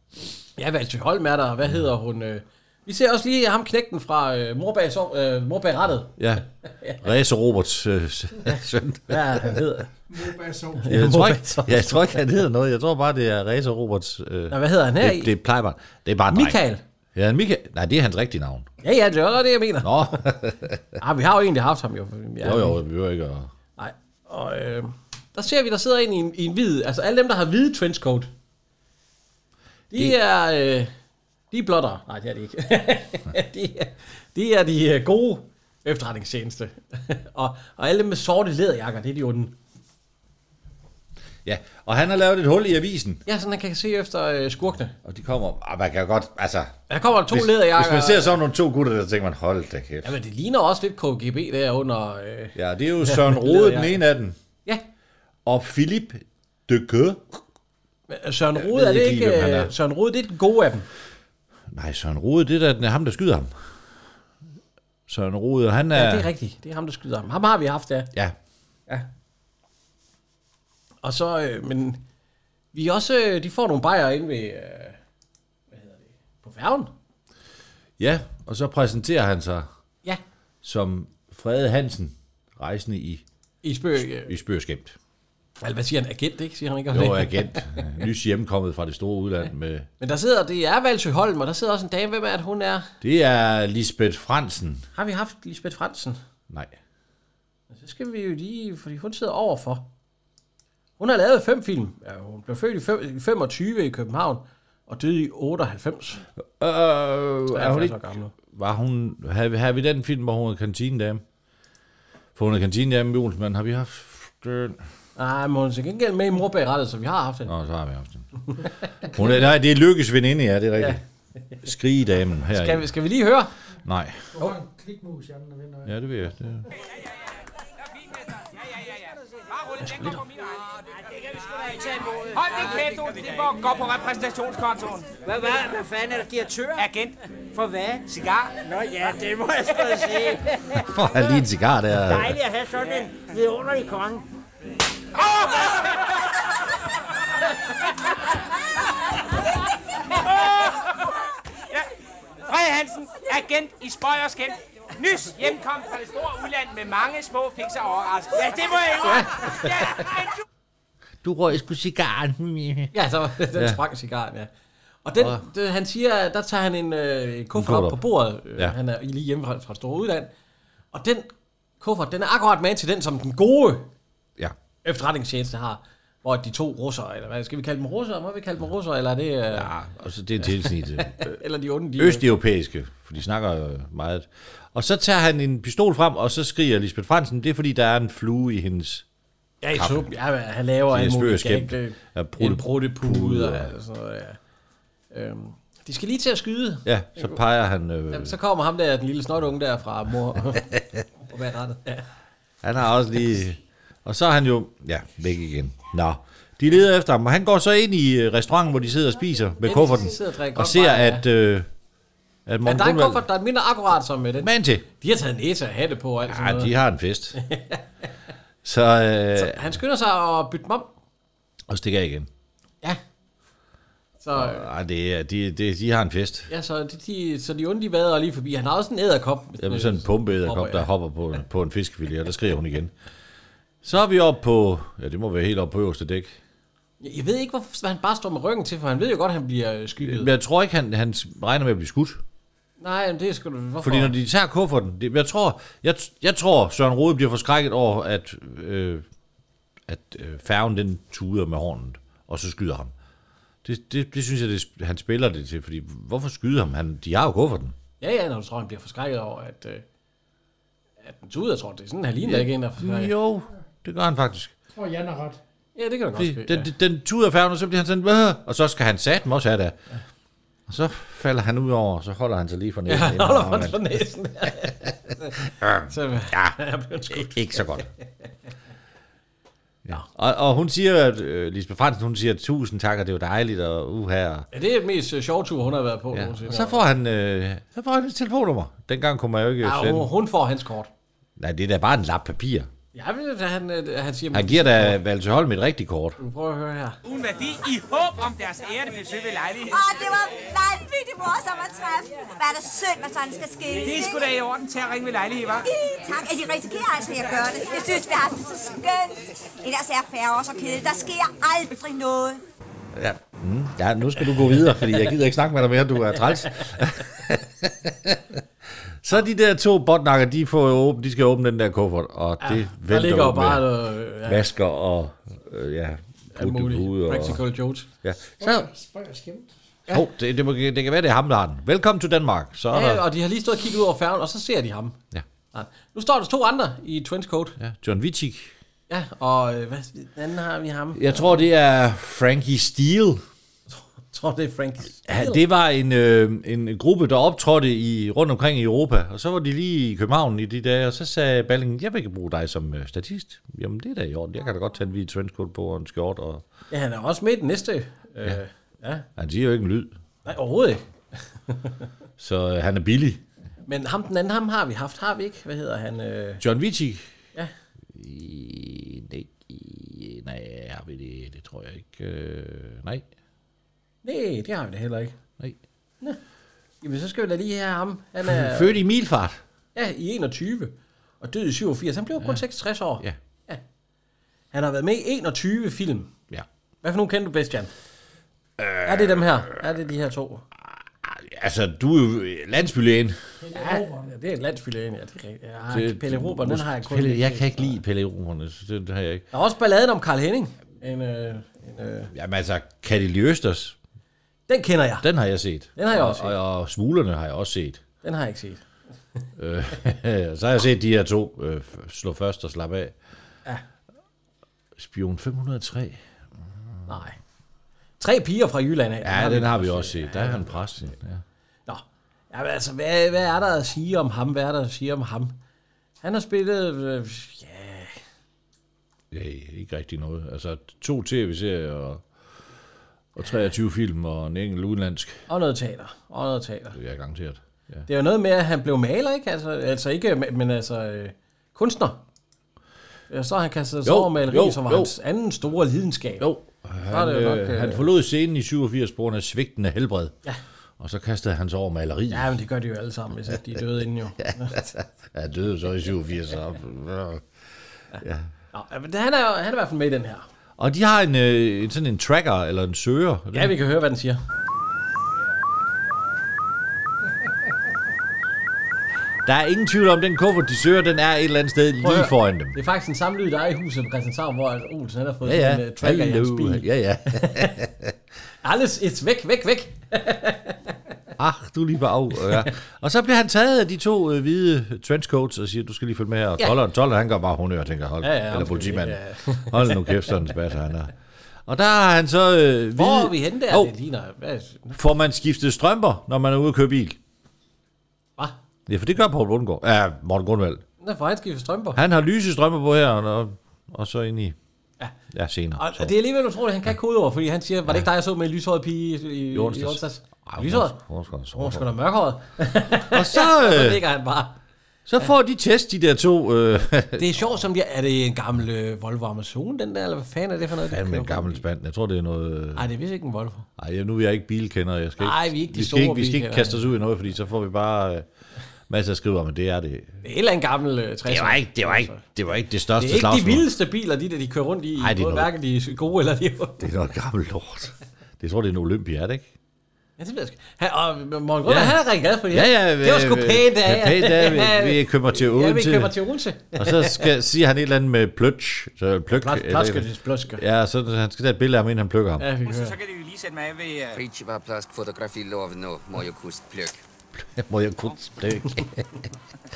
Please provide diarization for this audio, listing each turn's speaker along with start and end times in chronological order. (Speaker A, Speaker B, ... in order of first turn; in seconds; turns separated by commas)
Speaker A: 0.6-6.1, Speaker B: 6.2-6.4, Speaker A: 6.7-7.0, Speaker B: 7.0-9.6, Speaker A: 9.1-9.9, Speaker C: 10.1-11.1, Speaker A: 10.8-12.2, Speaker B: 10.8-16.6, Speaker A: 14.5-15.3, Speaker A: 16.3-16.8, Speaker B: 17.1-18.7, Speaker A: 18.8-20.2, Speaker B: 19.8-20.8, Speaker A: 21.0-22.8, Speaker B: 22.4-23.5, Speaker A: 23.8-28.3, Speaker A: 29.9-30.9, Speaker A: 31.5-39.6, Speaker B: 41.5-43.2, Speaker A: 43.3-45.0, Speaker B: 45.0-50.1, Speaker A: 46.9-48.4, Speaker A: 50.0-54.0, Speaker B: 52.5-54.4, Speaker B: 55.5-57.4, Speaker A: 58.1-60.9, Speaker B: 58.6-59.7, Speaker B: 61.7-63.5, Speaker B: 65.1-66.3, Speaker A: 65.9-68.1, Speaker A: 71.0-72.0, Speaker A: 72.7-75.0, Speaker A: 75.7-76.9, Speaker B: 78.0-79.7, Speaker B: 80.6-83.2, Speaker A: 83.6-84.3, Speaker B: 84.3-85.0, Speaker A: 85.6-88.0, Speaker B: 86.9-89.9, Speaker A: 90.0-92.9, Speaker B: 93.0-94.9, Speaker A: 94.9-96.2, Speaker B: 96.5-96.7, Speaker A: 97.7-99.9, Speaker A: 101.0-106.3, Speaker B: 106.5-108.0, Speaker A: 107.5-108.3, Speaker B: 108.5-111.2, Speaker B: 112.3-114.8, Speaker A: 115.2-117.5, Speaker B: 117.5-118.4, Speaker A: 118.5-119.4, Speaker B: 119.1-121.0, Speaker A: 120.8-121.6, Speaker B: 121.6-122.9, Speaker A: 122.5-123.5, Speaker B: 123.8-124.2, Speaker C: 124.3-126.0, Speaker B: 125.9-126.7, Speaker D: 127.9-130.9, Speaker A: 129.8-130.2, Speaker E: 131.1-133.2, Speaker D: 132.3-135.1, Speaker E: 135.2-136.9, Speaker D: 136.8-137.2, Speaker E: 137.5-138.1, Speaker D: 138.1-138.6, Speaker E: 138.6-140.8, Speaker B: 140.8-142.4, Speaker E: 142.1-144.3, Speaker D: 145.2-146.1, Speaker D: 150.1-151.1, Speaker D: 152.5-160.3, Speaker A: 159.0-160.0, Speaker B: 161.2-162.9, Speaker A: 162.9-164.5, Speaker B: 163.5-163.8, Speaker A: 165.1-170.3, Speaker B: 167.5-168.0, Speaker A: 170.9-173.9, Speaker A: 174.8-179.7, Speaker B: 179.5-181.3, Speaker A: 180.4-182.3, Speaker B: 182.0-189.1, Speaker A: 189.6-194.4, Speaker B: 189.7-190.1, Speaker B: 190.9-193.7, Speaker A: 195.1-197.4, Speaker B: 196.8-198.3, Speaker A: 198.1-202.1, Speaker B: 200.7-201.0, Speaker B: 202.6-211.7, Speaker A: 209.6-211.3, Speaker B: 212.5-213.2, Speaker A: 212.7-216.7, Speaker B: 214.4-214.8, Speaker B: 216.3-217.4, Speaker A: 217.3-218.1, Speaker B: 218.6-219.7, Speaker A: 219.3-220.9, Speaker B: 221.7-222.3, Speaker A: 224.2-224.7, Speaker B: 224.3-226.5, Speaker A: 226.5-230.9, Speaker B: 229.6-232.9, Speaker B: 233.8-236.4, Speaker A: 237.0-240.3, Speaker B: 240.0-242.2, Speaker A: 242.8-244.1, Speaker B: 243.8-249.1, Speaker B: 249.9-252.9, Speaker B: 253.6-257.8, Speaker A: 258.0-259.8, Speaker A: 261.0-263.1, Speaker B: 262.2-264.5, Speaker C: 264.7-265.4, Speaker A: 265.8-266.7, Speaker B: 266.2-269.8, Speaker B: 270.7-273.9, Speaker A: 272.9-277.9, Speaker B: 275.6-276.6, Speaker B: 277.1-277.9, Speaker B: 279.9-284.5, Speaker A: 284.5-286.9, Speaker B: 286.1-290.1, Speaker A: 289.6-290.9, Speaker B: 291.4-292.7, Speaker A: 292.9-295.0, Speaker B: 294.3-296.2, Speaker A: 296.2-297.0, Speaker D: 297.1-299.8, Speaker F: 299.7-304.3, Speaker D: 303.8-305.7, Speaker F: 305.6-312.4, Speaker B: 312.9-318.4, Speaker B: 319.0-323.7, Speaker A: 322.4-324.4, Speaker B: 324.3-327.4, Speaker A: 326.3-327.9, Speaker B: 328.0-328.7, Speaker C: 328.4-329.5, Speaker B: 329.9-333.0, Speaker A: 332.7-335.0, Speaker A: 335.5-337.6, Speaker B: 337.6-338.6, Speaker A: 338.9-341.4, Speaker B: 340.9-343.2, Speaker A: 343.7-345.4, Speaker B: 345.1-356.4, Speaker A: 356.7-359.1, Speaker B: 359.2-359.9, Speaker A: 360.2-360.9, Speaker A: 361.5-361.9, Speaker B: 362.2-363.2, Speaker A: 363.7-366.4, Speaker B: 366.4-367.1, Speaker B: 367.9-373.1, Speaker A: 374.0-375.2, Speaker A: 376.8-378.8, Speaker B: 378.2-379.4, Speaker A: 379.8-383.6, Speaker A: 384.5-386.1, Speaker A: 386.8-387.7, Speaker B: 388.6-389.6, Speaker A: 388.9-390.4, Speaker B: 390.7-393.2, Speaker C: 393.4-394.1, Speaker A: 393.5-397.8, Speaker B: 395.7-399.2, Speaker A: 399.3-402.1, Speaker B: 402.1-403.8, Speaker A: 404.5-405.1, Speaker B: 405.0-407.8, Speaker A: 405.8-406.4, Speaker A: 408.0-408.6, Speaker B: 409.4-413.0, Speaker B: 414.8-416.0, Speaker A: 416.9-417.2, Speaker A: 418.0-420.8, Speaker B: 419.0-421.2, Speaker A: 421.7-425.4, Speaker A: 426.0-428.0, Speaker B: 429.1-432.0, Speaker B: 433.1-435.2, Speaker A: 435.3-436.8, Speaker B: 436.7-437.9, Speaker A: 437.9-442.0, Speaker A: 443.1-446.3, Speaker B: 443.9-444.9, Speaker B: 446.2-450.2, Speaker A: 446.9-447.9, Speaker B: 450.8-452.3, Speaker A: 452.1-454.6, Speaker B: 454.2-457.2, Speaker B: 458.0-458.3, Speaker A: 458.5-460.3, Speaker B: 460.6-463.6, Speaker A: 463.3-464.2, Speaker B: 469.2-472.6, Speaker A: 471.8-477.6, Speaker B: 475.2-477.9, Speaker A: 478.4-480.8, Speaker B: 481.2-490.9, Speaker A: 488.0-490.2, Speaker B: 491.5-493.7, Speaker A: 492.8-494.8, Speaker B: 494.8-497.0, Speaker B: 498.7-500.6, Speaker A: 500.8-501.8, Speaker B: 501.8-504.4, Speaker B: 505.1-505.9, Speaker A: 505.6-510.8, Speaker B: 509.3-511.7, Speaker A: 511.3-514.4, Speaker B: 512.9-513.8, Speaker B: 514.9-517.2, Speaker A: 517.0-521.4, Speaker B: 520.6-522.7, Speaker A: 522.5-523.5, Speaker B: 523.6-528.1, Speaker A: 525.0-526.7, Speaker B: 528.7-530.0, Speaker A: 530.0-532.0, Speaker B: 531.1-533.5, Speaker A: 532.8-536.7, Speaker B: 534.8-535.3, Speaker B: 536.6-539.3, Speaker A: 540.0-547.1, Speaker B: 541.5-546.0, Speaker B: 546.5-552.3, Speaker A: 549.1-550.4, Speaker A: 552.2-552.8, Speaker D: 552.5-554.0, Speaker G: 553.9-556.8, Speaker B: 557.2-559.1